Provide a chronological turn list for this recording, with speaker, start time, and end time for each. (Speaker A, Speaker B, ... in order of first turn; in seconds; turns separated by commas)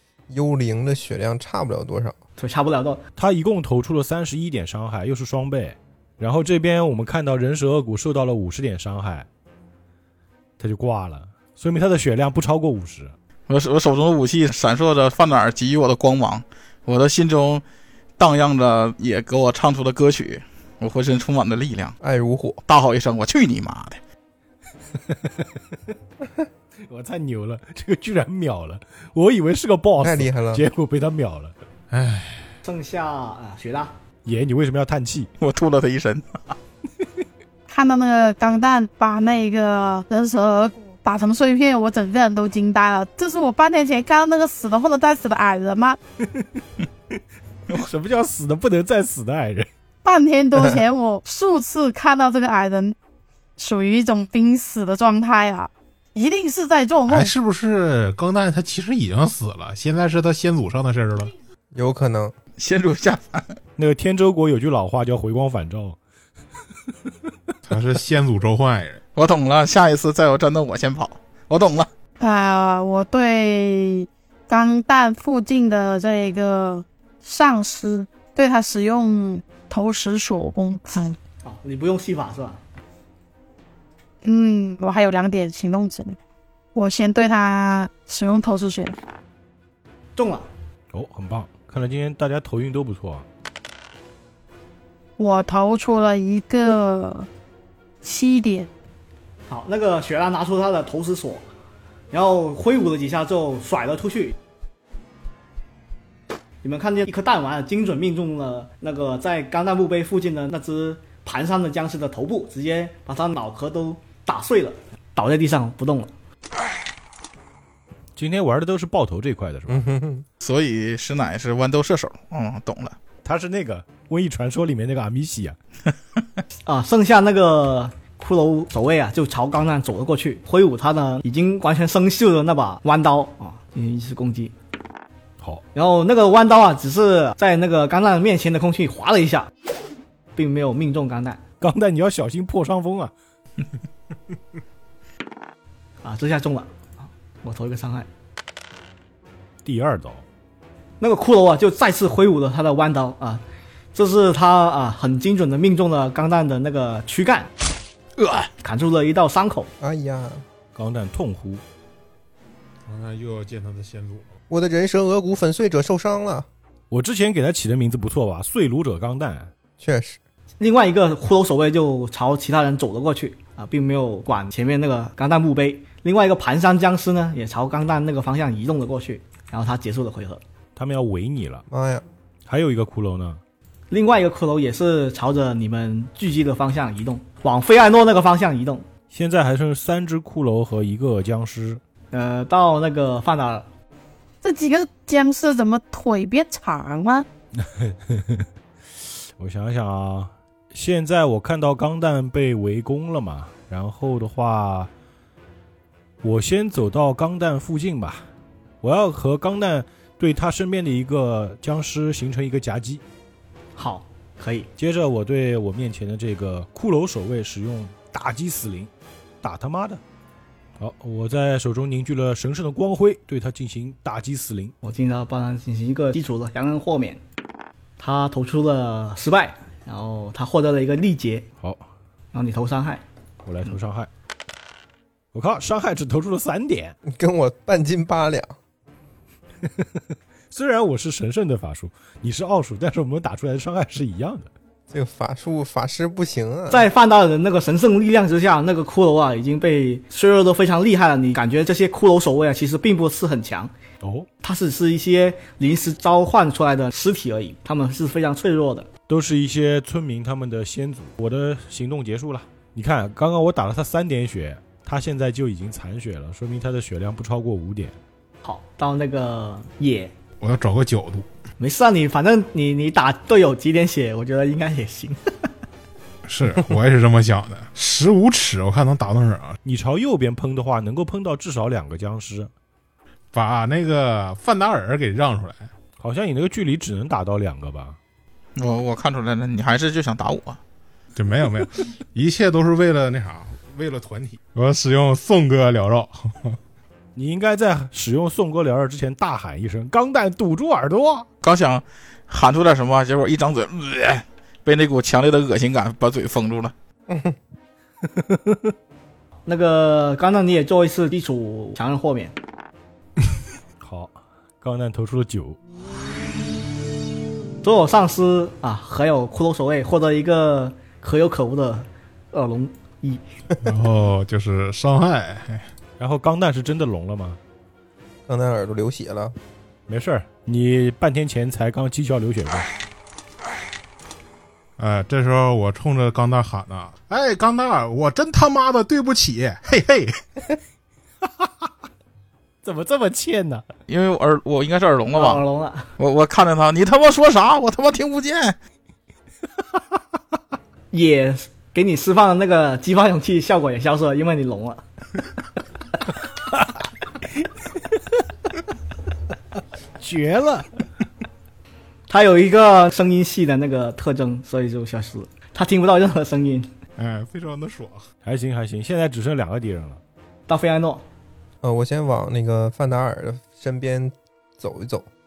Speaker A: 0.3-2.2, Speaker B: 2.4-3.0, Speaker C: 3.2-9.3, Speaker C: 10.6-13.1, Speaker D: 13.5-17.6, Speaker D: 18.2-21.9, Speaker A: 22.0-22.6, Speaker D: 22.7-24.0, Speaker C: 25.1-25.4, Speaker C: 26.8-31.5, Speaker A: 30.0-30.6, Speaker E: 31.9-32.5, Speaker B: 32.6-33.9, Speaker C: 34.2-35.3, Speaker D: 35.4-36.5, Speaker F: 37.7-46.0, Speaker C: 47.7-49.7, Speaker F: 50.0-53.0, Speaker F: 53.6-57.3, Speaker E: 57.1-61.3, Speaker A: 61.7-62.3, Speaker D: 62.6-63.6, Speaker C: 63.8-66.0, Speaker E: 67.7-69.0, Speaker D: 69.2-71.9, Speaker F: 72.2-81.2, Speaker B: 81.4-82.6, Speaker F: 84.2-86.2, Speaker F: 86.7-88.9, Speaker B: 90.2-90.5, Speaker C: 90.9-93.2, Speaker F: 95.2-97.3, Speaker F: 98.0-98.7, Speaker B: 99.5-101.4, Speaker B: 102.1-104.3, Speaker B: 106.6-116.1, Speaker C: 118.2-119.9, Speaker A: 119.7-120.2, Speaker D: 120.4-123.0, Speaker C: 123.2-125.5, Speaker B: 126.7-134.5, Speaker B: 135.7-139.5, Speaker B: 140.3-141.4, Speaker C: 141.6-143.1, Speaker B: 146.0-146.7, Speaker B: 147.4-148.1, Speaker C: 149.6-150.2, Speaker B: 151.0-153.4, Speaker B: 153.9-157.5, Speaker D: 158.2-158.5, Speaker B: 158.6-159.7, Speaker A: 159.8-160.4, Speaker C: 160.7-161.6, Speaker E: 162.9-164.3, Speaker A: 164.5-166.5, Speaker C: 166.9-169.5, Speaker A: 169.8-170.2, Speaker B: 170.6-180.4, Speaker C: 180.8-181.7, Speaker A: 181.7-182.0, Speaker C: 182.4-183.4, Speaker B: 183.9-188.8, Speaker C: 189.1-191.8, Speaker B: 192.1-193.7, Speaker F: 194.4-197.2, Speaker C: 197.6-198.4, Speaker C: 199.4-204.9, Speaker C: 206.2-208.3, Speaker C: 208.8-213.0, Speaker B: 213.8-214.7, Speaker C: 214.8-218.9, Speaker C: 219.4-220.0, Speaker C: 220.8-224.7, Speaker B: 224.8-227.2, Speaker B: 228.0-231.4, Speaker C: 231.6-231.9, Speaker B: 232.3-233.0, Speaker C: 233.4-234.1, Speaker C: 235.3-236.9, Speaker A: 237.0-238.6, Speaker C: 239.6-244.5, Speaker A: 244.9-246.9, Speaker B: 246.7-253.7, Speaker C: 254.0-254.3, Speaker B: 254.4-258.9, Speaker C: 259.1-268.0, Speaker B: 268.4-270.1, Speaker E: 270.4-271.3, Speaker B: 271.6-275.3, Speaker E: 276.2-279.6, Speaker C: 279.6-282.5, Speaker E: 283.3-285.7, Speaker C: 286.0-288.0, Speaker D: 288.6-290.6, Speaker E: 291.1-296.6, Speaker C: 297.1-301.3, Speaker D: 301.4-306.7, Speaker A: 307.1-307.4, Speaker C: 308.1-308.7, Speaker B: 309.4-312.3, Speaker C: 313.8-315.6, Speaker B: 317.6-323.2, Speaker E: 323.6-325.7, Speaker C: 326.0-327.4, Speaker A: 328.3-329.4, Speaker C: 329.9-332.7, Speaker E: 334.8-340.2, Speaker C: 342.6-343.6, Speaker D: 343.9-345.4, Speaker B: 345.1-345.9, Speaker D: 346.0-348.6, Speaker B: 350.9-354.8, Speaker C: 360.0-360.7, Speaker B: 362.1-366.7, Speaker E: 367.0-368.0, Speaker C: 368.2-370.0, Speaker B: 370.5-371.0, Speaker A: 371.6-375.1